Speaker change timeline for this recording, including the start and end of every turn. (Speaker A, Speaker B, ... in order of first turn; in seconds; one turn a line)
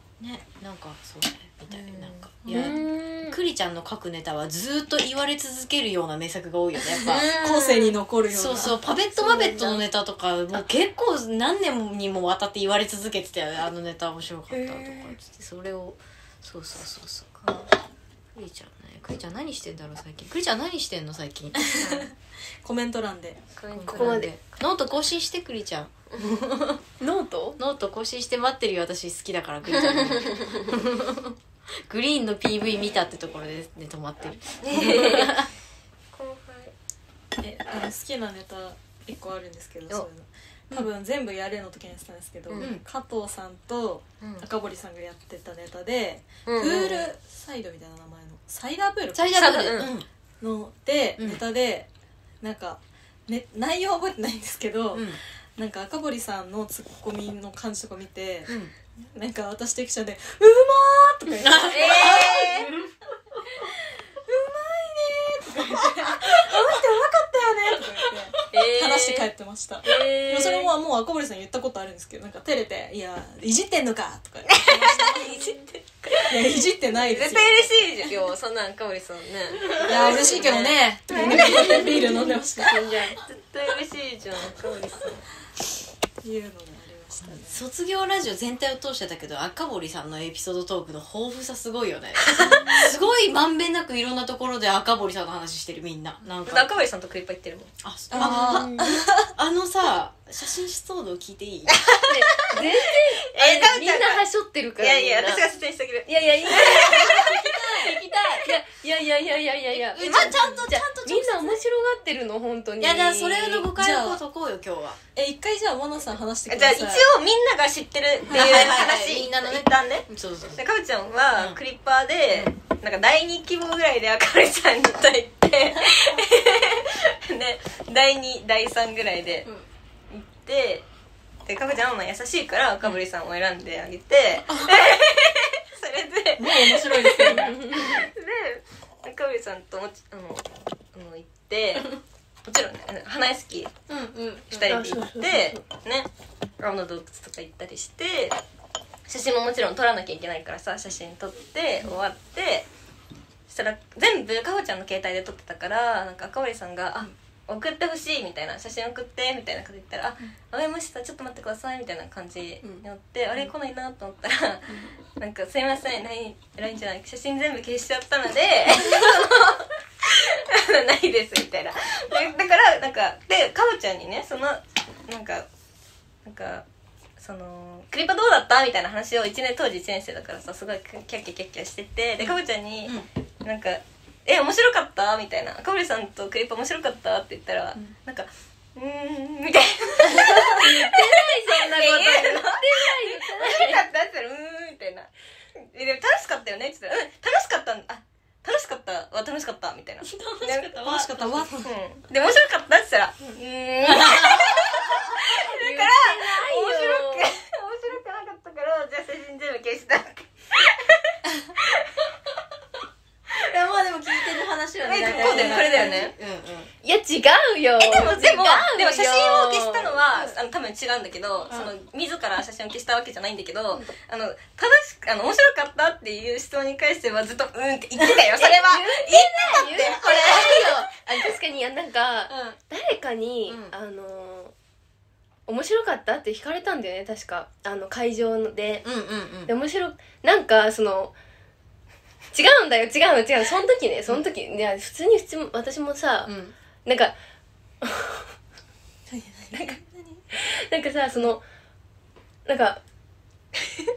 Speaker A: 0.2-7.4
Speaker B: 1.7-2.3
Speaker C: 2.5-3.4
Speaker D: 7.0-8.8
Speaker B: 7.1-7.9
Speaker A: 8.3-17.6
Speaker C: 9.2-9.8
Speaker D: 14.5-15.2
Speaker A: 18.4-21.9
Speaker D: 21.6-23.4
Speaker B: 21.7-22.1
Speaker B: 23.6-24.3
Speaker A: 23.8-26.8
Speaker C: 23.9-24.3
Speaker C: 27.0-27.6
Speaker A: 27.6-35.5
Speaker B: 29.9-30.5
Speaker B: 34.6-35.5
Speaker B: 36.1-36.7
Speaker D: 37.4-49.7
Speaker A: 42.6-42.8
Speaker B: 44.2-44.5
Speaker B: 46.5-47.1
Speaker A: 49.1-50.1
Speaker B: 49.3-49.9
Speaker D: 50.4-51.9
Speaker D: 52.4-62.7
Speaker A: 54.9-55.2
Speaker A: 58.5-58.7
Speaker A: 61.4-62.9
Speaker B: 61.7-62.7
Speaker D: 64.3-75.3
Speaker A: 65.7-66.3
Speaker B: 68.5-69.3
Speaker B: 69.8-70.7
Speaker B: 74.5-76.4
Speaker C: 75.2-75.5
Speaker D: 76.2-77.9
Speaker B: 77.0-82.1
Speaker A: 79.6-80.6
Speaker D: 79.8-82.8
Speaker C: 81.1-83.2
Speaker A: 81.1-82.5
Speaker B: 83.2-85.2
Speaker D: 86.2-87.6
Speaker A: 87.3-96.7
Speaker B: 92.2-92.9
Speaker D: 92.4-92.8
Speaker B: 96.5-97.7
Speaker A: 97.8-101.8
Speaker D: 98.1-99.3
Speaker C: 98.2-99.0
Speaker B: 101.7-102.7
Speaker C: 102.1-105.5
Speaker B: 103.3-104.2
Speaker B: 104.8-107.5
Speaker C: 106.1-113.7
Speaker A: 106.5-108.5
Speaker A: 109.7-111.6
Speaker B: 110.0-110.4
Speaker A: 112.8-115.0
Speaker D: 113.8-114.2
Speaker D: 115.2-117.1
Speaker B: 116.5-129.5
Speaker D: 118.3-118.8
Speaker A: 118.3-120.6
Speaker A: 121.3-121.6
Speaker B: 130.1-130.9
Speaker B: 131.5-143.8
Speaker D: 136.4-137.5
Speaker A: 136.5-137.6
Speaker C: 137.4-137.9
Speaker A: 143.9-144.8
Speaker B: 144.5-146.1
Speaker C: 144.7-145.6
Speaker B: 146.6-148.4
Speaker B: 149.1-152.7
Speaker B: 153.5-175.5
Speaker B: 176.2-176.7
Speaker B: 177.2-200.7
Speaker C: 190.1-193.8
Speaker A: 200.0-201.5
Speaker D: 200.8-201.7
Speaker B: 201.6-211.9
Speaker A: 203.8-205.2
Speaker C: 205.4-207.3
Speaker A: 213.3-216.7
Speaker B: 214.8-216.1
Speaker D: 215.0-216.0
Speaker C: 216.8-220.1
Speaker B: 217.8-230.8
Speaker C: 228.4-234.5
Speaker A: 230.1-230.6
Speaker A: 232.3-232.6
Speaker A: 233.5-233.7
Speaker C: 235.5-238.9
Speaker A: 238.8-239.5
Speaker C: 239.5-241.2
Speaker C: 242.3-247.2
Speaker A: 246.3-246.6
Speaker C: 247.8-248.3
Speaker D: 249.1-250.2
Speaker C: 249.5-249.8
Speaker C: 250.3-251.4
Speaker C: 252.5-252.8